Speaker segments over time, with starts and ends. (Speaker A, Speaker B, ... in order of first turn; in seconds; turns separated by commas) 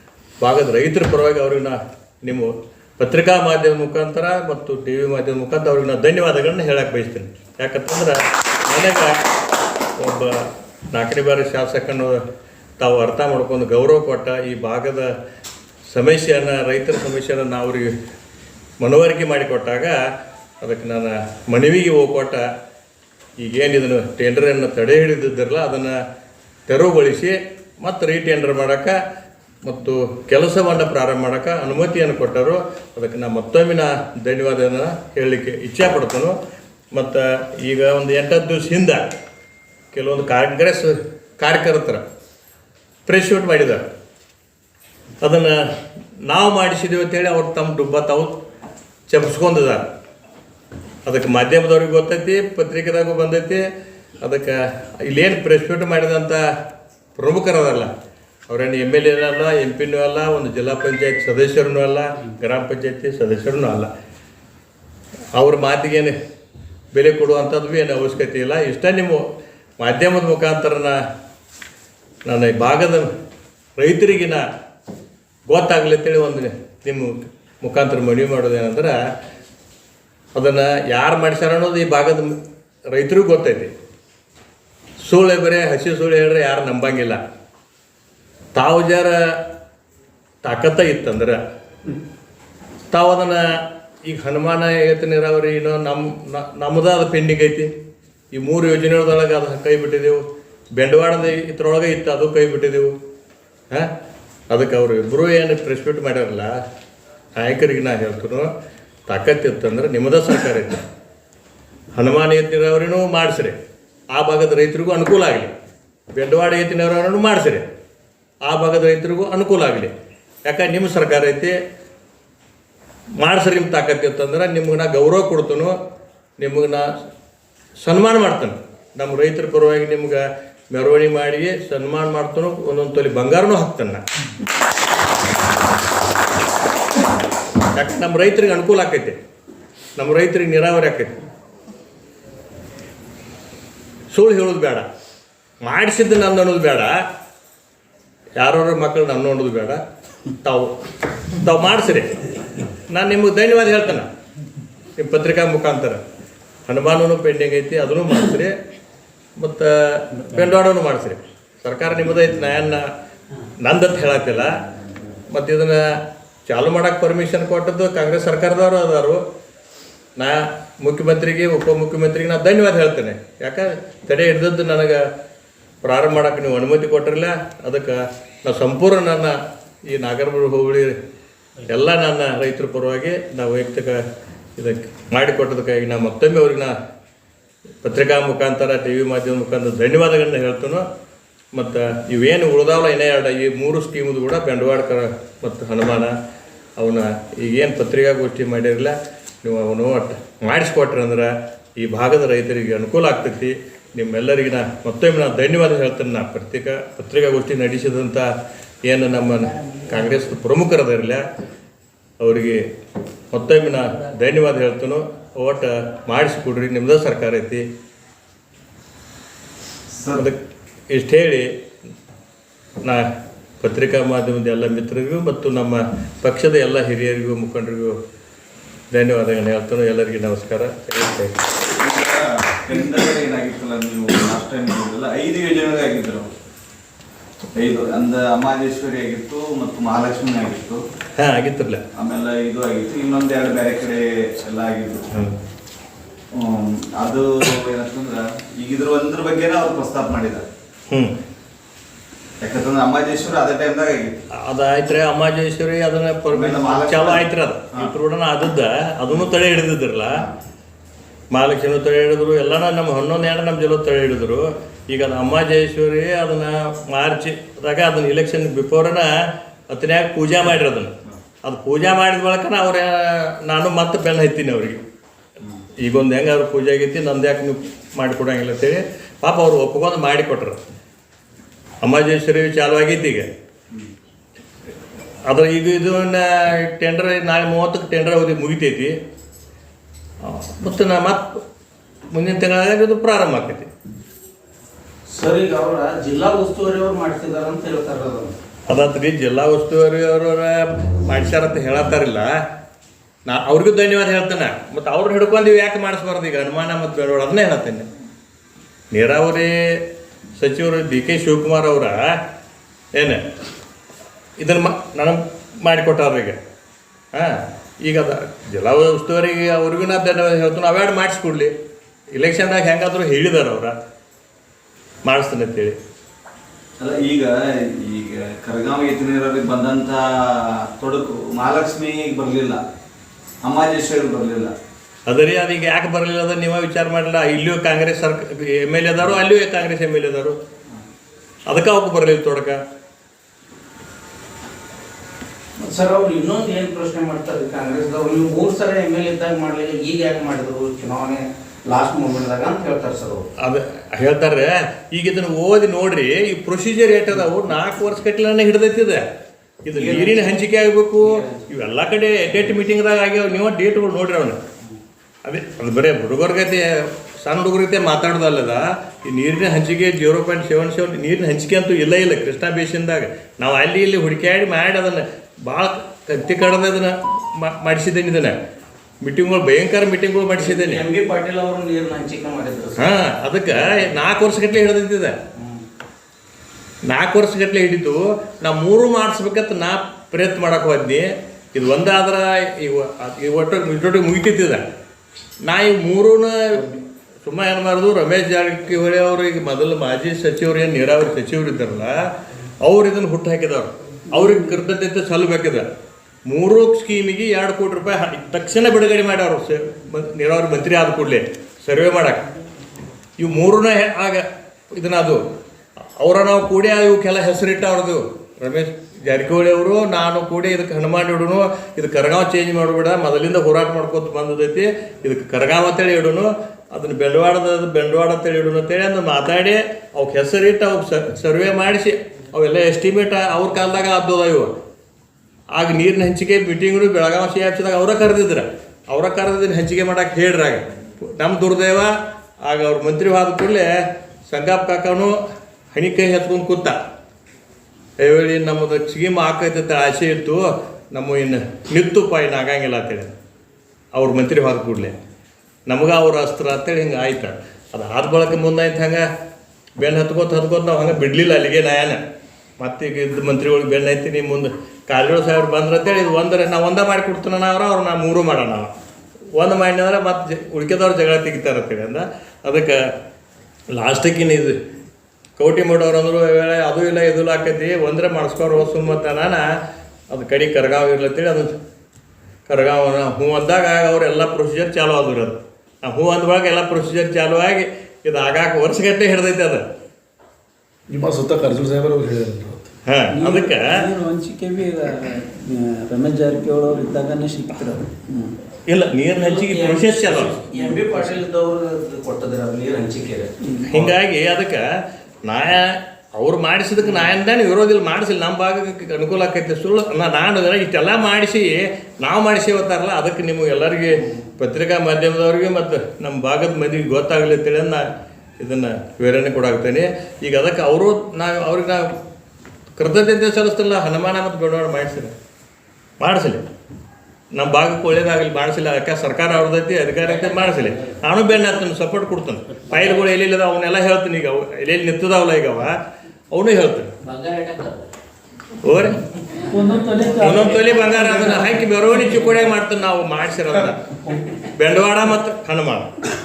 Speaker A: 0.4-9.2, Speaker A: 10.0-12.2, Speaker A: 12.8-15.1, Speaker A: 15.9-17.9, Speaker A: 18.8-20.0, Speaker A: 20.6-22.4, Speaker A: 23.4-26.0, Speaker A: 26.7-29.0, Speaker A: 29.6-36.4, Speaker A: 36.9-39.0, Speaker A: 39.9-42.0, Speaker A: 43.0-43.9, Speaker A: 45.2-48.4, Speaker A: 49.1-49.9, Speaker A: 51.0-53.6, Speaker A: 54.2-56.4, Speaker A: 57.1-57.9, Speaker A: 58.5-63.9, Speaker A: 65.3-66.1, Speaker A: 66.9-69.2, Speaker A: 69.8-71.0, Speaker A: 72.2-73.1, Speaker A: 73.8-74.4, Speaker A: 75.5-79.0, Speaker A: 80.3-82.3, Speaker A: 82.9-83.7, Speaker A: 85.0-87.2, Speaker A: 88.5-89.2, Speaker A: 90.4-91.4, Speaker A: 92.9-93.5, Speaker A: 94.0-97.7, Speaker A: 98.3-100.2, Speaker A: 100.8-102.9, Speaker A: 104.5-106.5, Speaker A: 107.3-108.5, Speaker A: 109.1-110.8, Speaker A: 111.9-113.5, Speaker A: 114.1-115.5, Speaker A: 116.2-117.7, Speaker A: 118.5-119.9, Speaker A: 120.5-121.5, Speaker A: 123.2-125.7, Speaker A: 126.4-126.9, Speaker A: 127.8-134.0, Speaker A: 137.7-139.2, Speaker A: 140.0-141.1, Speaker A: 144.1-144.9, Speaker A: 145.6-147.0, Speaker A: 148.4-149.8, Speaker A: 150.4-150.8, Speaker A: 151.3-152.2, Speaker A: 152.9-154.1, Speaker A: 155.0-156.0, Speaker A: 156.7-158.5, Speaker A: 159.4-162.8, Speaker A: 163.6-164.5, Speaker A: 165.3-165.8, Speaker A: 166.4-169.2, Speaker A: 170.2-175.0, Speaker A: 175.8-179.3, Speaker A: 179.9-180.9, Speaker A: 181.7-184.0, Speaker A: 184.6-186.7, Speaker A: 187.8-190.8, Speaker A: 191.5-196.1, Speaker A: 196.8-208.3, Speaker A: 208.8-211.2, Speaker A: 212.2-212.6, Speaker A: 213.3-217.6, Speaker B: 219.9-220.3, Speaker A: 220.9-221.5, Speaker A: 223.6-228.0, Speaker A: 228.9-231.3, Speaker B: 231.7-236.3, Speaker B: 237.6-240.8, Speaker A: 241.2-241.8, Speaker B: 241.9-245.1, Speaker B: 246.3-250.4, Speaker A: 250.9-251.1, Speaker B: 252.4-254.1, Speaker A: 254.4-260.2, Speaker B: 256.3-257.9, Speaker A: 261.3-269.1, Speaker A: 269.7-274.8, Speaker A: 275.8-280.6, Speaker A: 281.8-283.3, Speaker A: 285.3-288.9, Speaker A: 290.2-291.4, Speaker A: 292.1-293.7, Speaker C: 295.1-298.3, Speaker A: 298.7-302.3, Speaker A: 303.2-307.9, Speaker A: 308.9-309.8, Speaker A: 310.4-312.2, Speaker A: 312.9-313.2, Speaker A: 314.4-316.4, Speaker A: 317.1-321.5, Speaker A: 322.1-323.7, Speaker A: 325.1-325.8, Speaker B: 326.8-332.6, Speaker B: 333.4-334.5, Speaker A: 335.1-340.4, Speaker A: 341.5-342.6, Speaker C: 345.7-353.2, Speaker A: 353.4-359.0, Speaker A: 359.6-364.4, Speaker C: 359.7-360.3, Speaker C: 361.0-361.4, Speaker A: 365.2-378.4, Speaker A: 379.0-380.8, Speaker C: 380.4-382.9, Speaker A: 382.8-385.1, Speaker C: 385.4-385.6, Speaker A: 386.9-394.6, Speaker A: 395.4-402.1, Speaker A: 402.6-405.6, Speaker D: 404.1-404.6, Speaker A: 406.3-412.3, Speaker A: 413.2-415.2, Speaker A: 416.0-434.5, Speaker A: 435.5-443.7, Speaker A: 444.3-445.1, Speaker A: 445.7-446.8, Speaker A: 448.0-453.1, Speaker A: 453.9-454.9, Speaker A: 455.7-459.1, Speaker A: 459.8-462.0, Speaker A: 462.6-468.7, Speaker A: 469.3-472.9, Speaker A: 473.8-474.6, Speaker A: 475.4-479.5, Speaker A: 480.1-481.6, Speaker A: 482.5-489.6, Speaker E: 490.9-492.6, Speaker A: 492.9-493.7, Speaker D: 493.1-498.3, Speaker A: 498.7-500.4, Speaker C: 499.1-503.3, Speaker D: 500.4-501.1, Speaker D: 503.4-503.7, Speaker A: 503.6-504.6, Speaker A: 505.2-517.9, Speaker A: 518.4-521.9, Speaker A: 522.8-525.1, Speaker A: 526.0-526.4, Speaker A: 527.4-535.8, Speaker E: 530.2-531.0, Speaker A: 536.3-536.9, Speaker E: 537.0-537.9, Speaker A: 538.6-539.0, Speaker D: 539.5-541.8, Speaker E: 539.5-540.4, Speaker A: 540.2-545.9